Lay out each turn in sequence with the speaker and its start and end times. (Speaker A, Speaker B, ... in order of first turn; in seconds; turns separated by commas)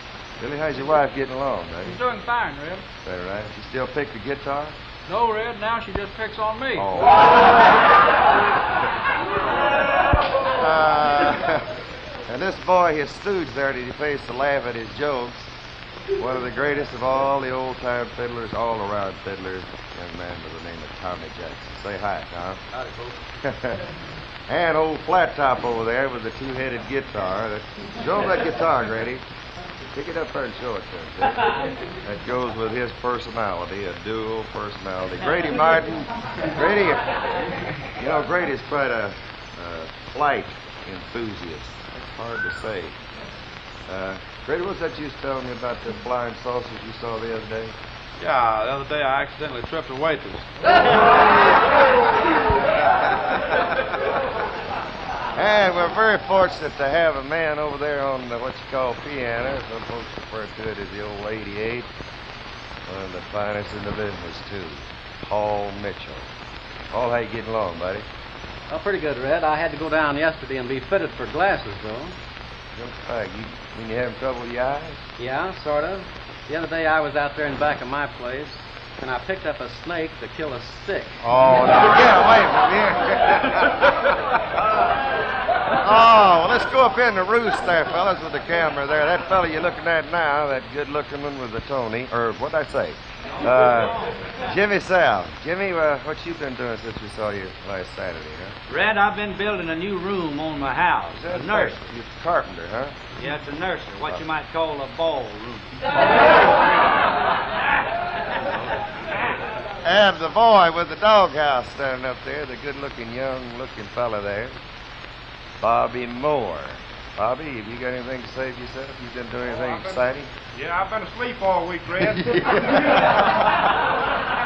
Speaker A: 0.4-2.0, Speaker A: 3.0-4.8, Speaker A: 6.7-7.7, Speaker A: 10.5-11.7, Speaker A: 12.3-15.5, Speaker A: 16.2-22.6, Speaker A: 23.4-23.8, Speaker A: 24.5-29.2, Speaker A: 29.9-37.2, Speaker A: 37.8-43.0, Speaker A: 43.9-47.7, Speaker B: 48.2-50.4, Speaker A: 52.9-53.7, Speaker A: 55.3-61.9, Speaker A: 62.8-66.3, Speaker A: 66.9-68.0, Speaker C: 68.7-72.1, Speaker A: 72.7-75.0, Speaker C: 75.2-81.2, Speaker A: 81.2-84.2, Speaker A: 85.8-98.5, Speaker D: 98.7-101.8, Speaker A: 101.1-103.0, Speaker D: 103.2-106.4, Speaker A: 104.0-104.2, Speaker A: 109.8-114.6, Speaker A: 115.6-120.3, Speaker E: 120.5-123.1, Speaker A: 122.0-123.6